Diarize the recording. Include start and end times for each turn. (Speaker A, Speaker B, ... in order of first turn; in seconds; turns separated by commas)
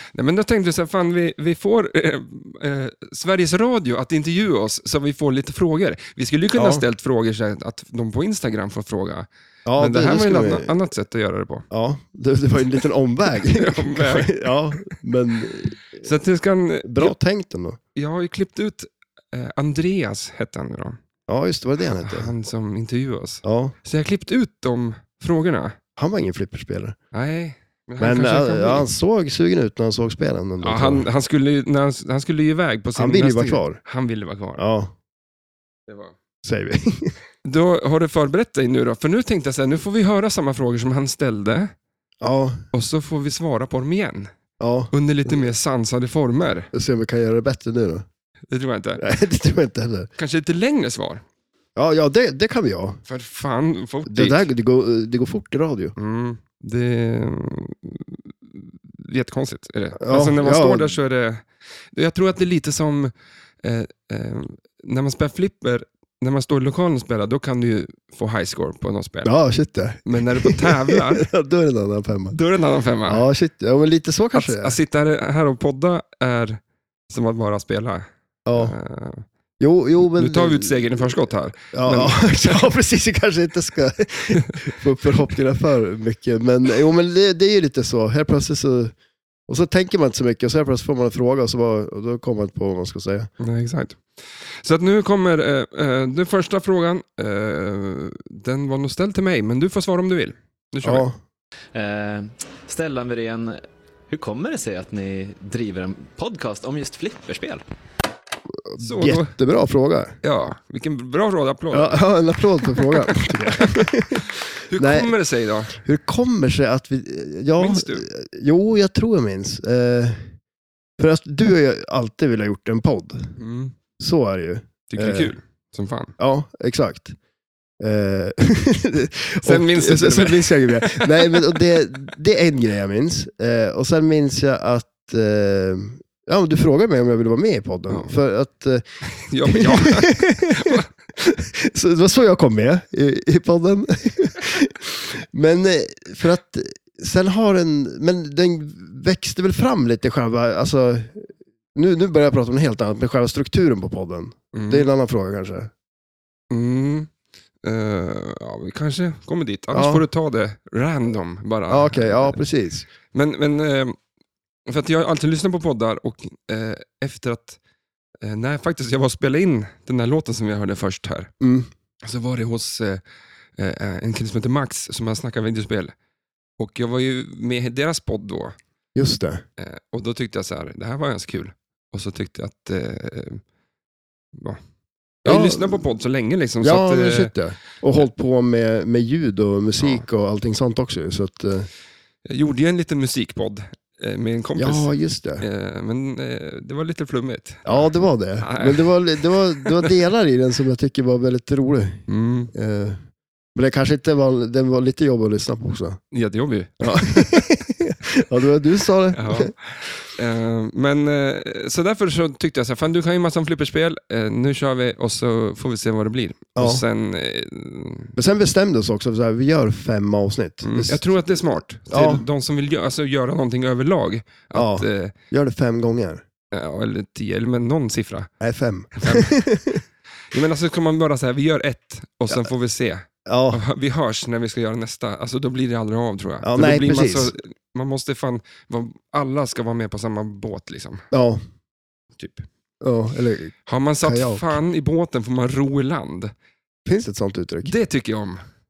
Speaker A: 0.1-9.3, Speaker B: 6.5-6.8, Speaker B: 9.7-10.7, Speaker A: 9.8-11.7, Speaker B: 11.7-16.1, Speaker A: 13.5-14.9, Speaker A: 16.0-17.1, Speaker B: 16.8-17.8, Speaker A: 17.9-21.0, Speaker B: 21.3-22.3, Speaker A: 22.0-25.8, Speaker B: 23.4-23.8, Speaker B: 26.0-27.0, Speaker A: 27.1-28.9, Speaker B: 28.0-31.1, Speaker A: 30.6-34.6, Speaker B: 33.0-33.8, Speaker B: 34.6-34.9, Speaker A: 35.9-36.1, Speaker B: 36.4-37.1, Speaker A: 37.4-41.7, Speaker B: 42.2-42.6, Speaker A: 42.7-44.3, Speaker B: 44.6-45.4, Speaker A: 44.9-46.7, Speaker B: 46.7-48.1, Speaker A: 48.5-49.0, Speaker B: 49.0-50.1, Speaker A: 50.2-51.2, Speaker B: 51.8-53.0, Speaker A: 53.1-54.5, Speaker B: 54.1-56.0, Speaker A: 56.0-63.1, Speaker B: 60.0-61.0, Speaker A: 63.6-69.3, Speaker B: 69.2-72.3, Speaker A: 70.0-71.3, Speaker A: 72.3-73.2, Speaker B: 73.1-74.8, Speaker A: 74.3-79.3, Speaker B: 78.5-78.7, Speaker B: 79.6-81.1, Speaker A: 80.0-82.7, Speaker B: 81.7-88.9, Speaker A: 84.3-84.6, Speaker B: 89.5-93.3, Speaker A: 93.4-94.0, Speaker A: 94.6-101.1, Speaker B: 100.8-101.2, Speaker C: 101.7-107.6, Speaker B: 108.7-110.2, Speaker A: 108.8-109.3, Speaker A: 110.2-112.1, Speaker B: 111.7-115.1, Speaker A: 112.8-115.8, Speaker B: 115.7-120.3, Speaker A: 117.6-118.0, Speaker B: 121.0-123.3, Speaker A: 123.4-123.8, Speaker B: 124.0-125.3, Speaker A: 124.9-126.1, Speaker B: 126.2-127.2, Speaker B: 127.8-138.8, Speaker A: 129.4-131.6, Speaker A: 137.9-138.1, Speaker A: 139.1-140.9, Speaker B: 139.5-155.7, Speaker A: 154.5-154.9, Speaker A: 156.5-157.1, Speaker A: 157.6-162.4, Speaker B: 159.7-160.1, Speaker B: 161.7-162.9, Speaker A: 163.1-164.0, Speaker A: 164.7-167.6, Speaker A: 168.2-171.3, Speaker B: 171.4-171.7, Speaker A: 172.0-173.0, Speaker A: 173.6-175.9, Speaker A: 176.6-178.6, Speaker B: 178.9-179.4, Speaker A: 179.6-183.4, Speaker A: 184.3-184.6, Speaker A: 185.2-187.3, Speaker B: 185.2-185.9, Speaker B: 186.6-191.7, Speaker A: 189.8-190.1, Speaker A: 192.2-199.9, Speaker B: 194.6-195.4, Speaker B: 197.7-203.0, Speaker A: 202.1-202.5, Speaker B: 203.6-206.0, Speaker A: 206.1-207.6, Speaker B: 206.8-209.5, Speaker A: 209.1-218.2, Speaker B: 216.6-216.8, Speaker B: 218.2-221.1, Speaker A: 220.6-225.2, Speaker B: 221.9-222.2, Speaker B: 224.5-226.2, Speaker A: 226.5-228.3, Speaker B: 228.4-229.8, Speaker A: 229.0-229.3, Speaker A: 230.3-241.0, Speaker B: 233.3-233.6, Speaker B: 236.4-237.3, Speaker B: 241.1-241.4, Speaker A: 242.2-242.5, Speaker B: 242.8-244.6, Speaker A: 243.7-246.3, Speaker B: 246.9-247.8, Speaker A: 247.6-248.4